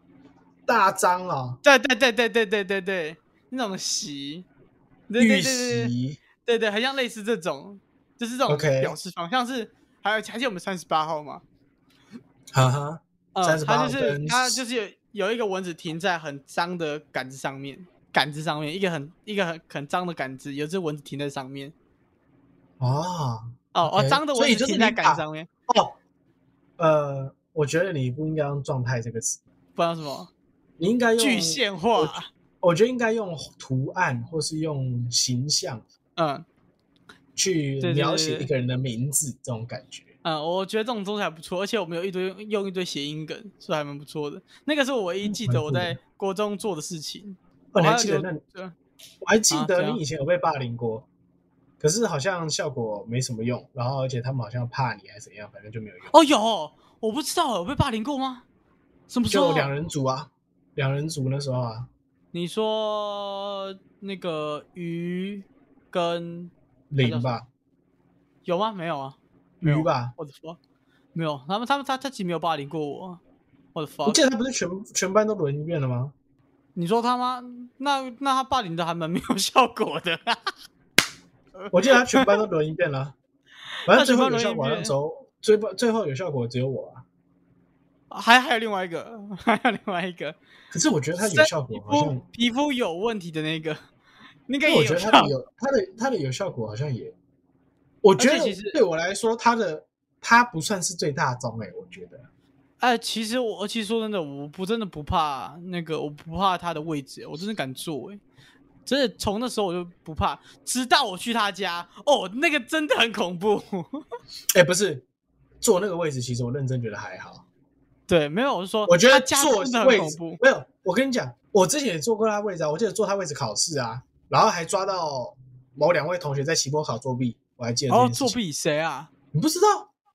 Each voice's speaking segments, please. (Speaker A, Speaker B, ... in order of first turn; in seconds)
Speaker A: 0.7-1.6, 5.2-6.2, 8.5-9.0, 12.5-14.6, 22.8-26.0, 26.8-29.4, 30.8-35.8, 37.4-40.1, 45.2-46.0, 47.7-48.4, 49.2-51.1, 51.8-56.1, 59.3-61.9, 66.9-67.5, 69.6-70.2, 74.1-76.1, 81.7-83.2, 83.9-87.0, 90.7-92.2, 94.7-97.2, 98.0-102.3, 114.5-115.1, 115.6-117.5, 118.9-128.4, 129.3-129.9
Speaker B: 1.6-4.5, 5.1-11.4, 13.3-21.7, 23.7-25.5, 29.8-30.3, 31.2-32.3, 36.2-36.5, 37.8-38.5, 40.2-48.7, 49.5-50.0, 56.1-58.4, 59.1-59.7, 62.3-67.3, 68.5-70.6, 71.2-73.2, 73.8-74.2, 76.8-80.5, 81.6-82.4, 83.9-85.0, 88.1-90.4, 91.2-93.8, 94.5-95.3, 98.2-98.8, 102.8-108.2, 108.9-114.0, 118.1-120.4, 127.9-129.1